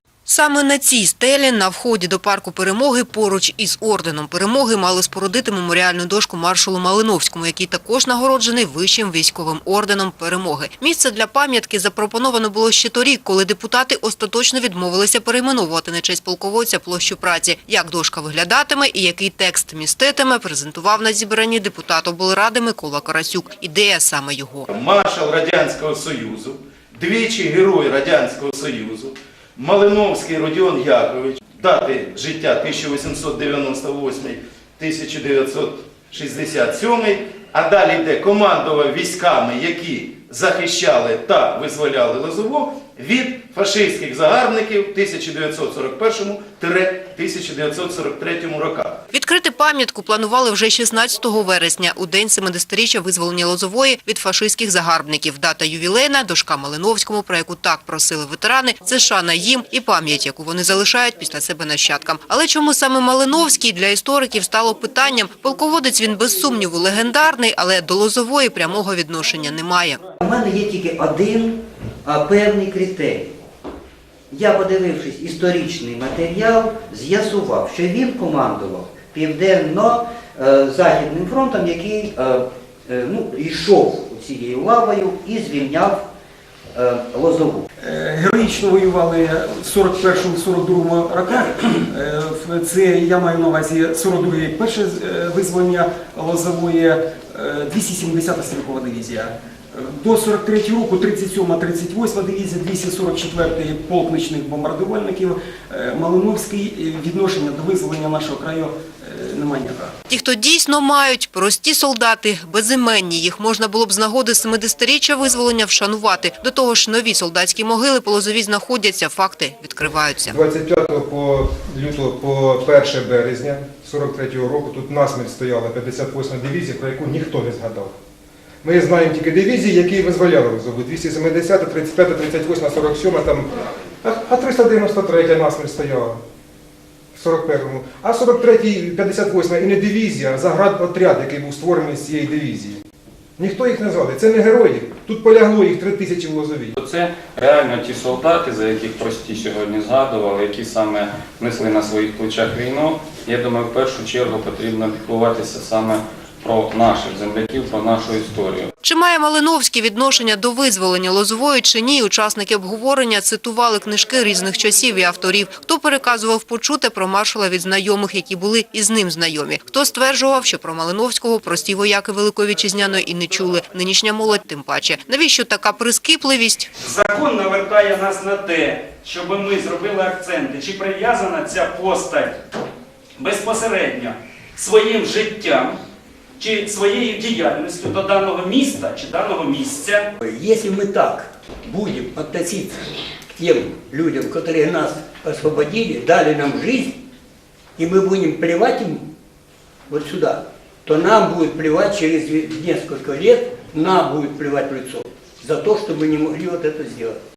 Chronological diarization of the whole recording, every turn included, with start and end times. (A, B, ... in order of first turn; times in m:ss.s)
0:00.3-0:24.7 A
0:24.7-0:49.0 B
0:49.1-1:10.0 A
1:10.2-1:13.3 C
1:14.3-1:26.1 C
1:26.7-1:27.7 C
1:27.8-1:50.0 D
1:50.1-2:00.4 A
2:00.3-2:07.9 E
2:08.6-2:13.5 E
2:14.0-2:16.2 E
2:17.2-2:22.8 E
2:23.4-2:26.8 E
2:26.8-2:38.7 F
2:38.8-2:56.7 A
2:56.8-3:02.3 G
3:03.2-3:05.8 G
3:06.4-3:10.1 G
3:10.2-3:17.0 H
3:17.8-3:19.1 H
3:19.9-3:27.2 H